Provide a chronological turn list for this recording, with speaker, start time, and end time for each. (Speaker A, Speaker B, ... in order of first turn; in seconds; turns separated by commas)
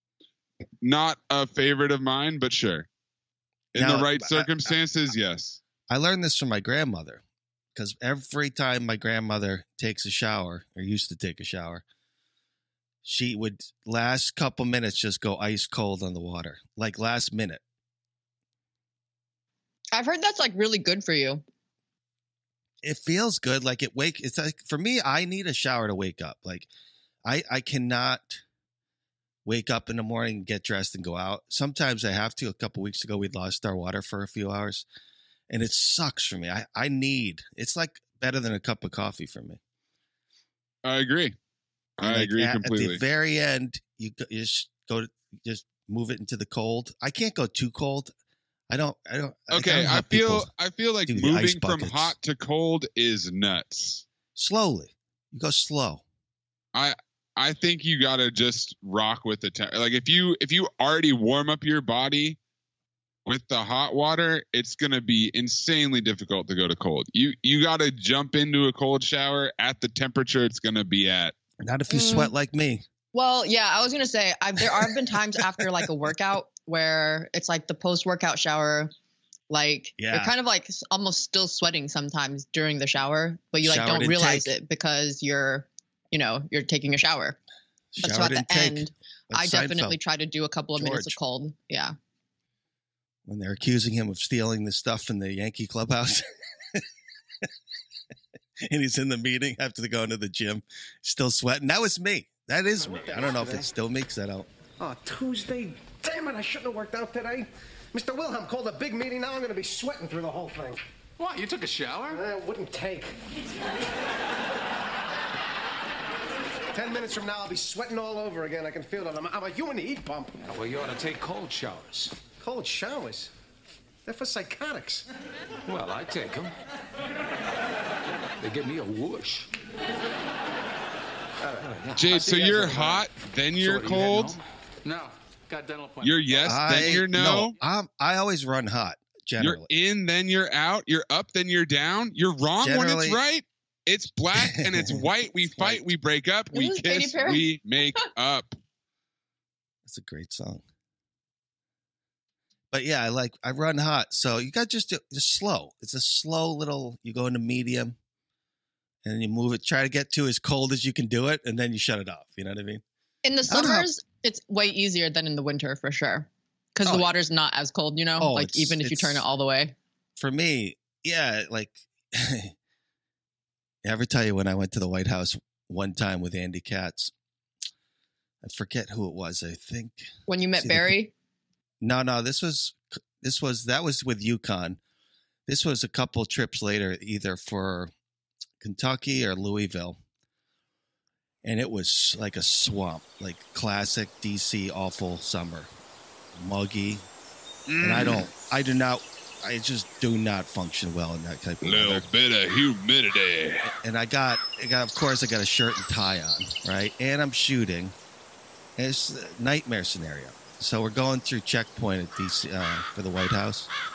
Speaker A: 0.8-2.9, Speaker A: 3.7-5.6, Speaker B: 3.8-4.7, Speaker B: 5.9-7.2, Speaker B: 7.8-11.8, Speaker B: 13.0-17.6, Speaker C: 19.9-21.4, Speaker B: 22.8-26.7, Speaker B: 27.2-28.4, Speaker B: 29.4-34.9, Speaker B: 35.5-39.6, Speaker A: 40.9-41.4, Speaker A: 42.0-43.0, Speaker B: 42.0-48.1, Speaker B: 48.7-50.5, Speaker A: 49.5-54.0, Speaker B: 51.1-52.1, Speaker B: 54.4-56.0, Speaker A: 56.7-62.4, Speaker A: 63.3-71.3, Speaker B: 71.6-72.8, Speaker C: 71.9-72.3, Speaker C: 73.1-78.9, Speaker C: 79.5-87.4, Speaker B: 80.0-80.3, Speaker B: 83.6-84.5, Speaker B: 87.9-90.0, Speaker C: 88.0-92.0, Speaker B: 90.8-91.2, Speaker B: 93.2-96.8, Speaker B: 98.7-104.5, Speaker D: 102.8-103.7, Speaker D: 104.8-110.8, Speaker E: 111.2-112.2, Speaker D: 112.1-113.1, Speaker D: 116.7-120.4, Speaker E: 120.4-122.1, Speaker D: 122.3-123.3, Speaker D: 124.0-125.1, Speaker E: 125.7-126.5, Speaker E: 128.4-129.5, Speaker E: 131.4-136.6, Speaker A: 132.0-134.4, Speaker A: 136.0-137.6, Speaker B: 136.4-139.7, Speaker A: 139.4-148.6, Speaker B: 142.6-143.2, Speaker B: 144.3-145.8, Speaker C: 146.5-147.5, Speaker B: 149.9-150.6, Speaker B: 152.7-158.0, Speaker B: 159.0-162.8, Speaker C: 163.2-169.7, Speaker B: 163.5-163.9, Speaker B: 166.8-167.1, Speaker B: 168.2-169.2, Speaker B: 170.2-172.5, Speaker B: 173.8-177.1, Speaker B: 178.4-181.0, Speaker C: 180.3-181.1, Speaker B: 181.8-184.8, Speaker B: 185.5-187.9, Speaker B: 188.6-190.0, Speaker B: 191.4-195.7, Speaker B: 196.3-197.1, Speaker A: 197.7-198.3, Speaker B: 197.8-202.1, Speaker A: 201.6-203.7, Speaker B: 203.7-208.0, Speaker B: 208.8-213.7